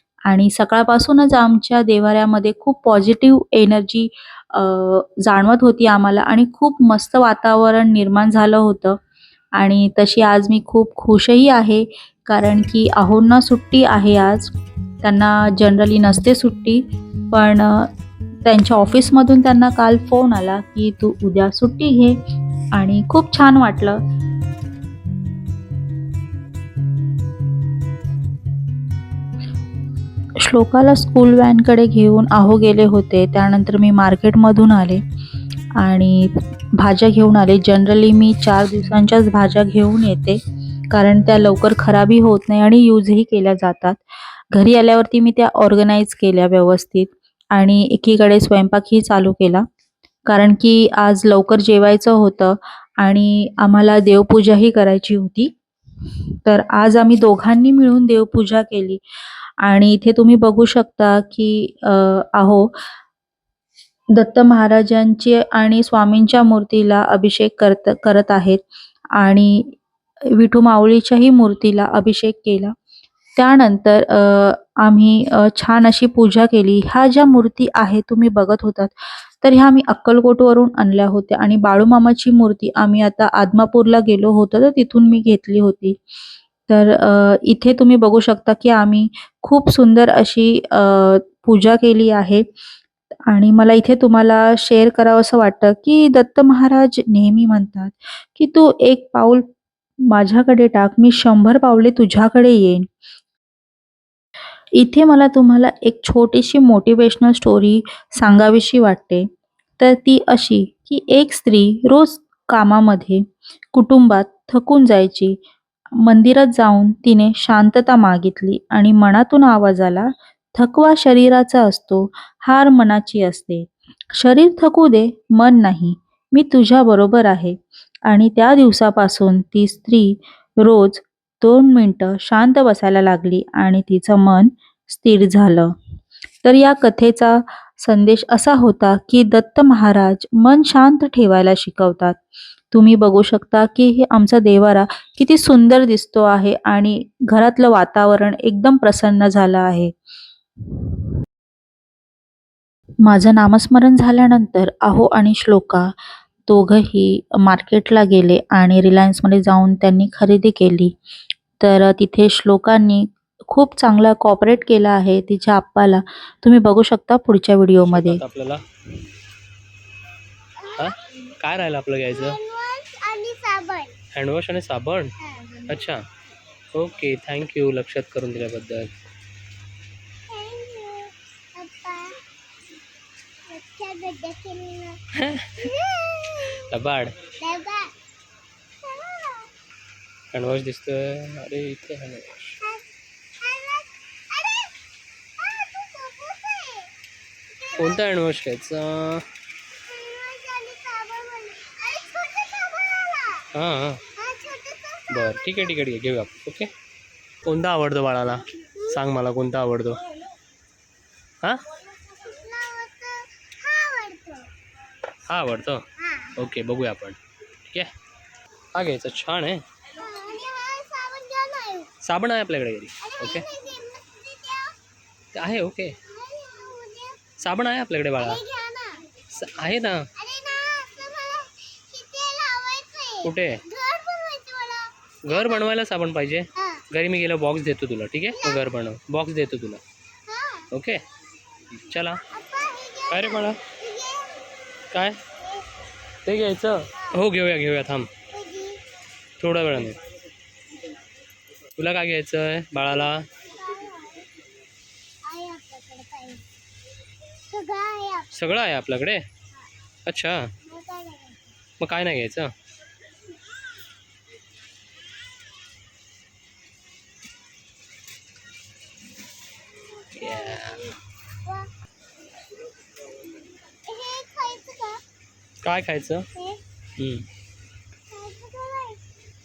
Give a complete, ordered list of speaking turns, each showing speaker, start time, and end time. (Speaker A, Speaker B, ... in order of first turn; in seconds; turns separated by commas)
Speaker A: 0.3-9.0, Speaker A: 9.6-17.9, Speaker A: 18.4-22.2, Speaker A: 22.7-24.0, Speaker A: 30.4-35.0, Speaker A: 35.8-40.4, Speaker A: 40.9-49.6, Speaker A: 50.3-55.5, Speaker A: 56.4-59.0, Speaker A: 59.6-62.7, Speaker A: 64.1-68.6, Speaker A: 69.2-69.7, Speaker A: 70.3-72.7, Speaker A: 73.4-86.0, Speaker A: 86.7-92.4, Speaker A: 93.3-99.4, Speaker A: 100.1-102.9, Speaker A: 104.8-109.2, Speaker A: 109.8-115.3, Speaker A: 116.0-135.7, Speaker A: 136.4-142.2, Speaker A: 142.7-149.9, Speaker A: 153.0-155.9, Speaker A: 156.5-160.9, Speaker A: 161.6-168.2, Speaker B: 167.8-168.6, Speaker C: 170.6-171.2, Speaker B: 170.8-172.4, Speaker C: 172.1-173.9, Speaker B: 174.1-175.1, Speaker C: 175.2-175.8, Speaker B: 175.7-176.0, Speaker B: 176.7-178.9, Speaker C: 180.3-182.2, Speaker C: 183.5-185.0, Speaker B: 185.1-185.7, Speaker C: 185.6-186.7, Speaker B: 186.4-187.2, Speaker C: 187.4-187.9, Speaker C: 188.8-189.5, Speaker B: 190.3-192.6, Speaker C: 193.4-194.8, Speaker C: 195.4-196.9, Speaker C: 197.7-198.0, Speaker B: 197.8-199.3, Speaker C: 199.8-203.5, Speaker B: 203.5-204.0, Speaker C: 204.2-205.3, Speaker B: 205.1-206.7, Speaker B: 207.4-210.0, Speaker C: 212.1-214.5, Speaker B: 215.3-215.8, Speaker C: 216.0-216.3, Speaker B: 216.4-217.9, Speaker B: 218.7-219.6, Speaker C: 219.9-221.9, Speaker B: 222.0-223.5, Speaker C: 223.0-224.8, Speaker B: 225.3-226.0, Speaker C: 226.0-227.3, Speaker B: 227.4-228.4, Speaker C: 228.2-229.1, Speaker B: 229.3-230.1, Speaker C: 230.2-235.6, Speaker B: 233.2-233.6, Speaker B: 235.2-239.8, Speaker C: 236.6-236.8, Speaker C: 238.3-238.7, Speaker C: 240.3-240.7, Speaker B: 240.7-241.0, Speaker B: 241.7-242.2, Speaker C: 242.3-244.5, Speaker B: 243.1-243.6, Speaker B: 244.9-245.2, Speaker B: 246.2-248.1, Speaker C: 246.9-247.2, Speaker C: 248.3-248.8, Speaker B: 249.4-250.0, Speaker B: 251.8-253.3, Speaker C: 253.4-254.3, Speaker C: 255.2-256.5, Speaker C: 257.5-258.3, Speaker B: 258.3-259.2, Speaker B: 260.1-260.5, Speaker C: 260.6-261.6, Speaker B: 261.8-262.5, Speaker C: 270.0-270.9, Speaker B: 270.1-270.9, Speaker C: 271.4-271.7, Speaker C: 273.8-275.0, Speaker B: 275.6-276.3, Speaker C: 276.3-276.6, Speaker B: 277.0-277.3, Speaker C: 278.1-279.0